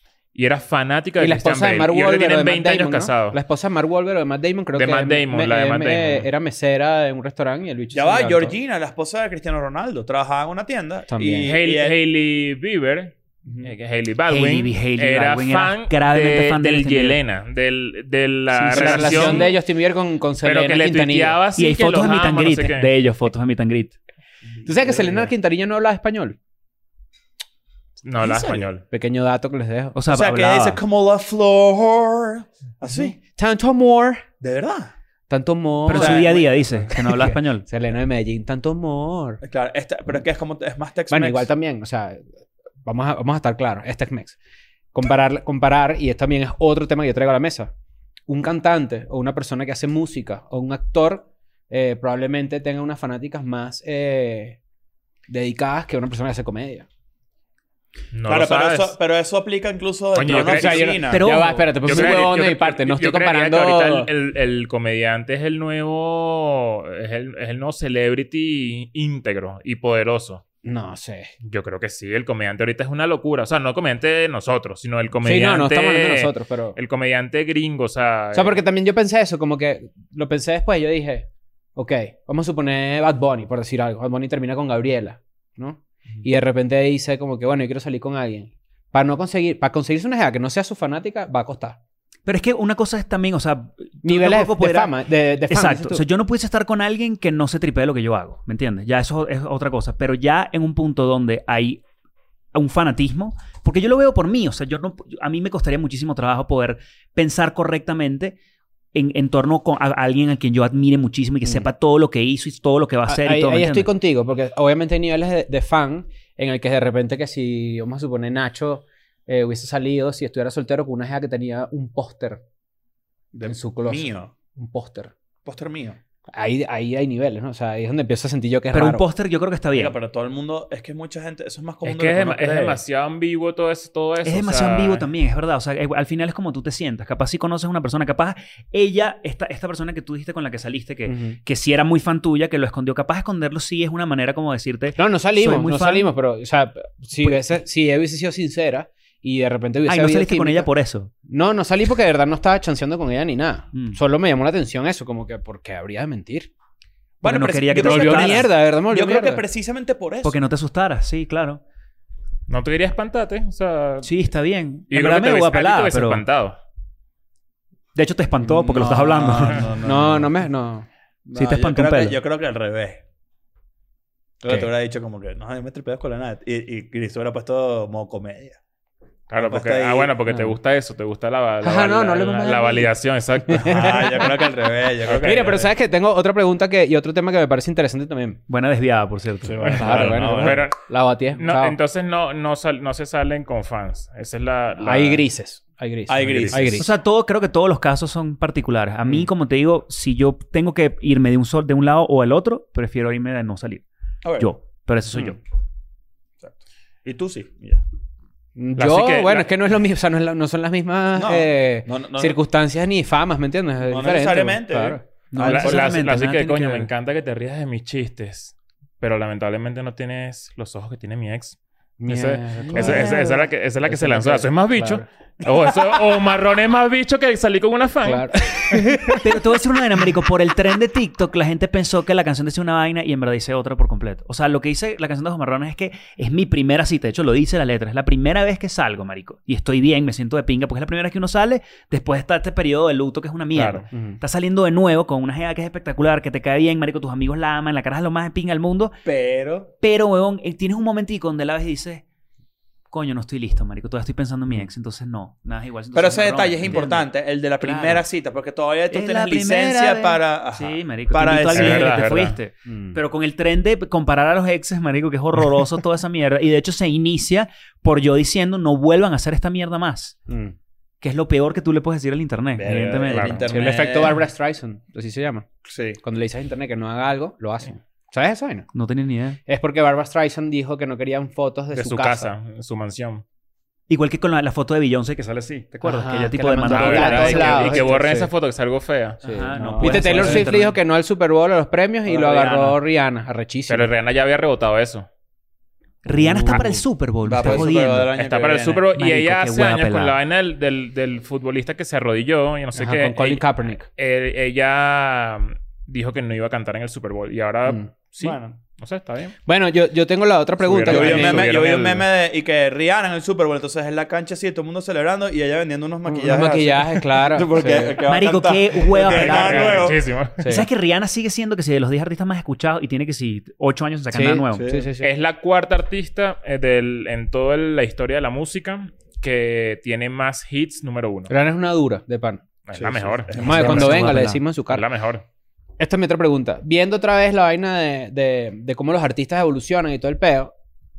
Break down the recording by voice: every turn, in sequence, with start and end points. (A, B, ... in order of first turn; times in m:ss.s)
0:00.3-0:03.4 A
0:01.2-0:08.6 B
0:04.7-0:06.3 A
0:07.9-0:12.0 C
0:11.1-0:11.5 B
0:11.4-0:19.6 A
0:13.5-0:13.7 C
0:14.3-0:17.2 D
0:18.5-0:19.5 D
0:18.7-0:21.4 B
0:20.4-0:22.9 A
0:21.6-0:24.0 D
0:24.6-0:25.3 C
0:24.6-0:26.4 B
0:28.0-0:28.8 A
0:28.2-0:28.7 C
0:28.9-0:30.0 B
0:30.0-0:30.8 D
0:30.1-0:33.2 C
0:33.2-0:34.3 B
0:34.4-0:34.9 C
0:35.3-0:39.4 B
0:35.9-0:37.7 D
0:35.9-0:36.5 C
0:39.4-0:41.5 C
0:41.1-0:42.3 B
0:42.8-0:44.4 B
0:44.9-0:47.7 B
0:48.3-0:54.6 B
0:55.3-0:56.9 B
0:58.1-0:59.0 A
0:58.3-1:02.3 C
1:00.2-1:01.1 A
1:00.3-1:04.1 B
1:01.1-1:01.9 D
1:01.8-1:10.4 A
1:10.6-1:11.3 B
1:11.4-1:18.6 A
1:15.2-1:16.8 B
1:18.3-1:31.8 B
1:32.3-1:34.9 D
1:34.0-1:36.0 B
1:35.5-1:41.8 D
1:42.5-1:48.4 D
1:48.9-1:53.9 D
1:53.1-2:02.4 B
2:03.3-2:04.3 C
2:03.5-2:05.1 B
2:05.4-2:06.0 C
2:06.3-2:09.1 B
2:08.7-2:10.0 D
2:09.7-2:12.8 C
2:11.8-2:15.1 A
2:14.2-2:26.1 D
2:21.1-2:21.4 B
2:25.0-2:30.7 B
2:27.2-2:27.5 D
2:29.9-2:31.1 D
2:31.3-2:36.5 B
2:37.2-2:40.4 C
2:37.2-2:38.5 D
2:37.7-2:39.4 B
2:40.2-2:41.6 D
2:42.5-2:44.1 A
2:44.0-2:46.2 D
2:44.9-2:46.6 A
2:48.0-2:49.7 D
2:48.5-2:50.3 C
2:49.8-2:50.9 B
2:51.3-2:53.0 C
2:51.4-2:52.2 D
2:54.4-2:58.6 C
2:59.3-3:04.3 A
2:59.4-3:00.1 C
3:00.3-3:00.6 B
3:01.6-3:02.9 B
3:03.5-3:04.4 B
3:03.7-3:05.7 C
3:05.1-3:05.6 A
3:05.1-3:08.4 B
3:08.5-3:10.1 D
3:09.4-3:10.7 C
3:09.7-3:11.8 B
3:09.8-3:10.8 A
3:11.4-3:15.2 A
3:14.8-3:16.9 B
3:16.1-3:16.8 C
3:16.2-3:16.7 A
3:16.8-3:23.8 D
3:24.2-3:24.5 C
3:24.4-3:25.4 D
3:26.4-3:27.8 C
3:28.6-3:35.0 B
3:28.8-3:29.5 A
3:31.2-3:32.4 C
3:33.8-3:35.9 C
3:35.3-3:36.9 D
3:35.4-3:48.8 A
3:42.0-3:45.0 B
3:42.7-3:43.2 C
3:48.0-3:49.4 B
3:49.2-4:09.0 D
4:03.5-4:03.9 A
4:03.9-4:04.2 B
4:09.0-4:09.7 C
4:09.8-4:12.0 D
4:12.9-4:17.1 D
4:15.9-4:22.1 C
4:17.6-4:18.0 D
4:18.9-4:30.2 D
4:21.5-4:22.4 A
4:22.7-4:23.0 B
4:30.3-4:30.6 B
4:31.0-4:33.5 D
4:32.6-4:34.2 C
4:33.1-4:33.5 A
4:33.5-4:35.5 B
4:35.6-4:36.0 C
4:36.0-4:38.7 B
4:38.7-4:39.4 D
4:39.5-4:42.3 B
4:41.7-4:43.2 A
4:43.9-4:47.9 D
4:45.8-4:48.3 B
4:46.7-4:50.5 A
4:49.2-4:50.8 D
4:49.2-4:53.9 B
4:49.6-4:50.5 C
4:52.0-4:52.8 C
4:53.7-4:55.1 A
4:56.0-4:58.1 D
4:56.1-4:56.8 B
4:56.5-4:56.7 A
4:57.2-4:58.8 C
4:58.2-5:09.4 A
4:58.9-5:00.2 D
5:02.8-5:03.9 B
5:08.2-5:08.6 C
5:09.5-5:11.6 B
5:10.6-5:12.0 A
5:10.9-5:20.1 C
5:16.1-5:18.0 B
5:18.0-5:24.7 D
5:19.0-5:20.4 A
5:20.4-5:20.7 B
5:24.1-5:25.1 B
5:24.6-5:24.9 C
5:25.0-5:31.3 A
5:31.3-5:34.8 B
5:32.7-5:34.2 A
5:33.3-5:33.8 C
5:33.4-5:34.4 D
5:34.7-5:35.2 A
5:35.8-5:40.5 B